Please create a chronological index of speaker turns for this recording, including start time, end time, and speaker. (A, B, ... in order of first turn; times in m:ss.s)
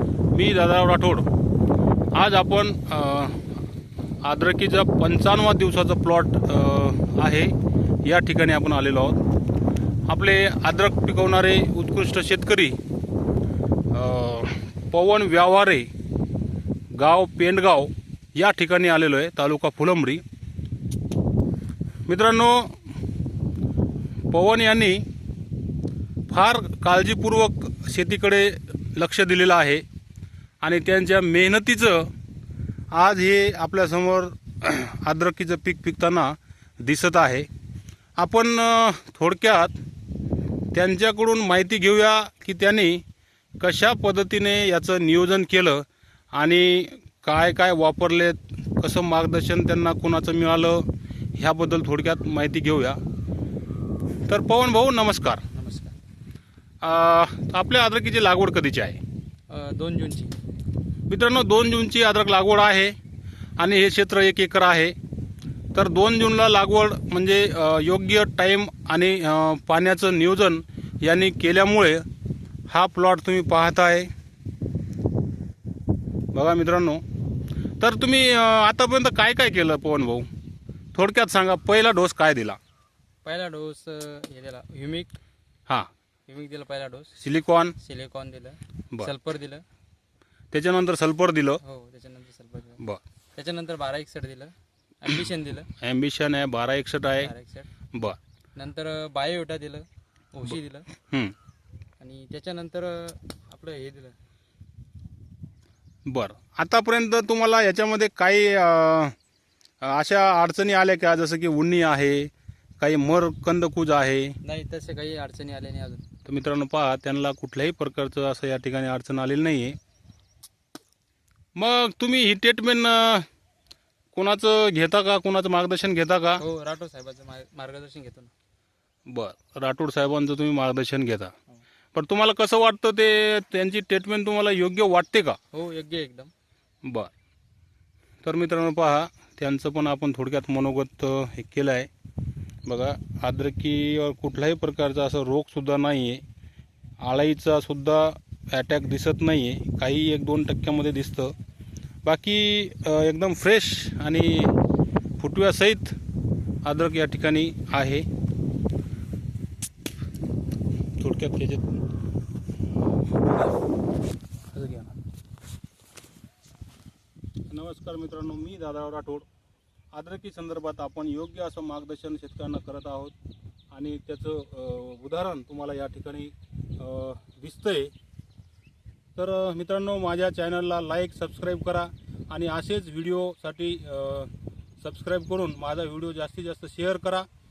0:00.3-0:01.3 A
0:02.1-0:03.4 A
0:04.2-0:09.2 A
0:10.1-0:12.8 A
0:13.9-0:15.9 A
0:16.9-0:20.2 A
0:22.1-0:22.8 A
0:24.3-0:25.0 A
0:26.3-0:29.8 A
0:30.6-0:32.1 A
0:32.9-0:37.5 A
0:38.2-0:39.8 A
0:40.7-0:43.0 A
0:43.6-0:53.0 A
0:54.3-0:55.4 A
0:55.5-0:55.9 B
0:56.8-0:59.0 A
0:59.5-1:00.4 B
1:01.1-1:03.0 A
1:03.6-1:05.0 A
1:05.7-1:12.0 A
1:12.7-1:14.1 A
1:16.3-1:17.0 A
1:17.8-1:20.3 A
1:20.9-1:22.6 A
1:23.2-1:25.1 B
1:26.3-1:27.1 B
1:27.2-1:27.8 A
1:27.8-1:29.6 B
1:30.5-1:31.6 A
1:31.6-1:32.8 B
1:33.3-1:35.7 B
1:35.7-1:37.3 A
1:37.2-1:37.7 B
1:38.6-1:40.9 B
1:42.0-1:44.2 B
1:46.0-1:49.2 A
1:49.8-1:54.4 A
1:54.4-1:56.0 B
1:56.2-1:59.8 A
2:01.5-2:03.3 A
2:04.1-2:06.4 A
2:06.4-2:08.3 B
2:09.0-2:11.3 A
2:11.9-2:15.4 A
2:15.5-2:16.3 B
2:16.8-2:17.1 A
2:18.2-2:21.9 A
2:22.6-2:26.2 A
2:27.0-2:31.3 A
2:32.0-2:34.5 A
2:35.2-2:36.0 A
2:36.6-2:38.1 A
2:41.0-2:41.8 A
2:44.5-2:44.9 A
2:47.5-2:49.2 A
2:49.9-2:53.1 A
2:53.7-2:57.9 A
2:59.2-3:07.3 A